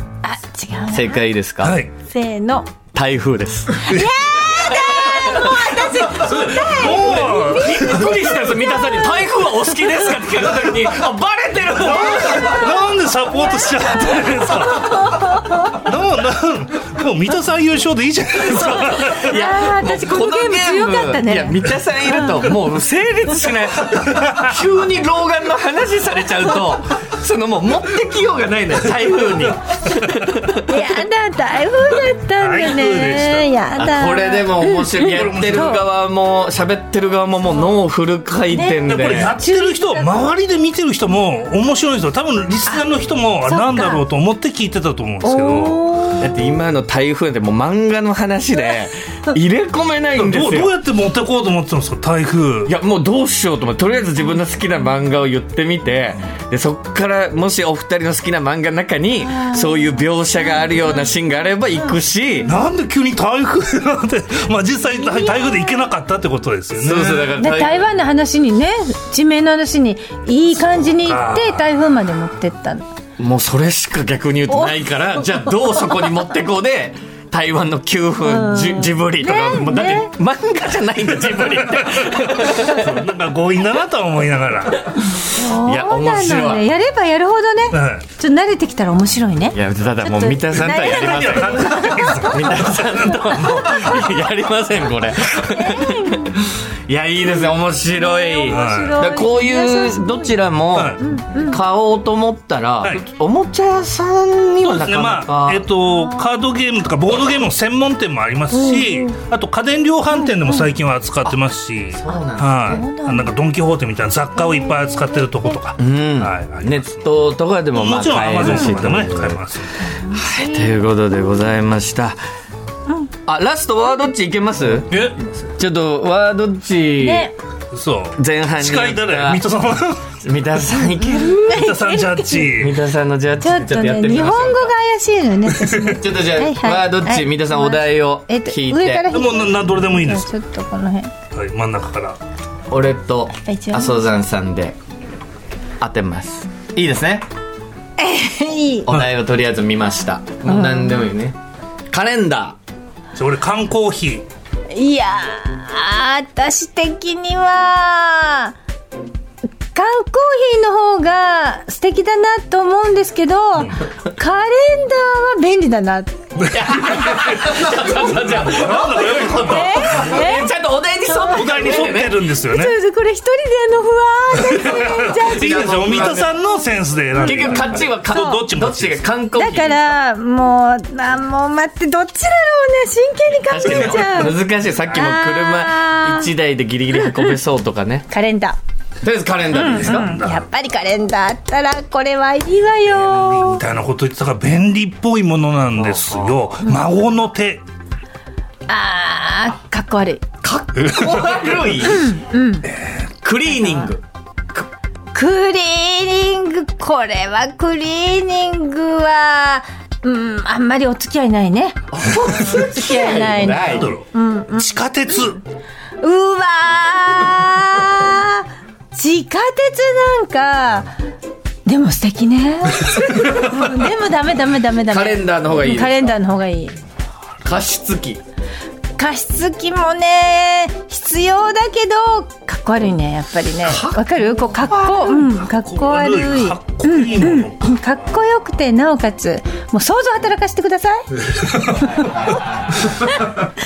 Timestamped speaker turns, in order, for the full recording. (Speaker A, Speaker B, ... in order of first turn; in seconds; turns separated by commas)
Speaker A: 0.2-1.2, Speaker B: 0.9-1.8, Speaker C: 1.6-1.9, Speaker A: 2.0-2.7, Speaker B: 2.9-12.8, Speaker A: 3.8-9.3, Speaker C: 6.1-8.5, Speaker C: 11.8-15.0, Speaker A: 11.9-12.7, Speaker A: 13.6-15.8, Speaker C: 15.8-19.4, Speaker B: 18.5-30.9, Speaker A: 18.9-22.5, Speaker C: 23.8-24.6, Speaker A: 30.6-35.8, Speaker C: 32.4-33.5, Speaker B: 33.8-39.3, Speaker C: 35.0-35.8, Speaker A: 38.5-40.2, Speaker C: 38.9-46.0, Speaker A: 43.4-44.0, Speaker A: 45.2-46.2, Speaker B: 46.2-50.7, Speaker C: 50.1-52.7, Speaker B: 52.6-62.5, Speaker A: 59.3-59.6, Speaker A: 60.5-61.0, Speaker C: 62.4-67.3, Speaker B: 66.8-67.9, Speaker A: 67.3-72.8, Speaker C: 71.0-71.7, Speaker B: 73.2-83.0, Speaker A: 74.5-74.8, Speaker A: 78.2-80.1, Speaker C: 81.0-84.8, Speaker A: 85.2-92.4, Speaker B: 85.4-86.7, Speaker C: 87.7-88.0, Speaker B: 89.5-105.6, Speaker C: 90.7-94.0, Speaker A: 95.5-96.3, Speaker A: 97.9-100.4, Speaker C: 98.5-99.0, Speaker C: 100.7-101.0, Speaker A: 101.0-101.6, Speaker C: 104.6-117.1, Speaker A: 105.9-106.3, Speaker A: 108.5-109.1, Speaker A: 110.2-110.7, Speaker B: 111.9-112.8, Speaker A: 112.6-113.3, Speaker A: 114.4-115.3, Speaker B: 115.8-119.4, Speaker C: 117.7-119.8, Speaker A: 119.8-120.7, Speaker B: 120.1-122.2, Speaker B: 123.3-127.3, Speaker A: 127.0-127.3, Speaker C: 127.7-130.1, Speaker B: 128.2-129.4, Speaker B: 130.2-131.6, Speaker A: 130.9-132.5, Speaker C: 131.5-132.8, Speaker B: 132.5-134.7, Speaker A: 133.4-141.1, Speaker C: 135.6-136.0, Speaker B: 136.0-139.1, Speaker C: 139.1-140.3, Speaker C: 141.3-142.2, Speaker B: 142.7-144.7, Speaker A: 143.4-143.9, Speaker B: 145.8-147.2, Speaker A: 148.0-148.9, Speaker B: 148.9-151.3, Speaker A: 150.4-151.0, Speaker B: 151.9-152.6, Speaker C: 153.2-154.2, Speaker A: 154.7-158.5, Speaker A: 159.7-166.1, Speaker C: 166.4-170.2, Speaker B: 166.5-172.2, Speaker A: 169.3-170.5, Speaker A: 171.1-171.8, Speaker C: 171.3-172.8, Speaker A: 172.4-175.9, Speaker C: 174.4-179.0, Speaker B: 174.7-176.3, Speaker A: 177.1-178.4, Speaker B: 177.2-179.9, Speaker A: 179.3-186.3, Speaker B: 183.5-188.1, Speaker A: 186.9-187.3, Speaker A: 188.1-188.6, Speaker B: 189.0-190.1, Speaker A: 189.5-193.6, Speaker C: 189.8-190.4, Speaker C: 193.3-197.6, Speaker B: 195.8-196.3, Speaker A: 198.7-200.3, Speaker B: 200.4-202.1, Speaker C: 201.0-201.6, Speaker A: 201.8-202.7, Speaker C: 202.7-203.0, Speaker B: 203.2-204.0, Speaker A: 205.1-214.8, Speaker B: 211.9-213.9, Speaker C: 213.7-215.4, Speaker A: 216.0-220.9, Speaker A: 221.7-226.8, Speaker B: 224.9-226.1, Speaker B: 227.4-228.2, Speaker A: 229.0-241.1, Speaker B: 233.6-235.2, Speaker C: 235.5-237.8, Speaker C: 241.3-241.8, Speaker B: 241.9-242.8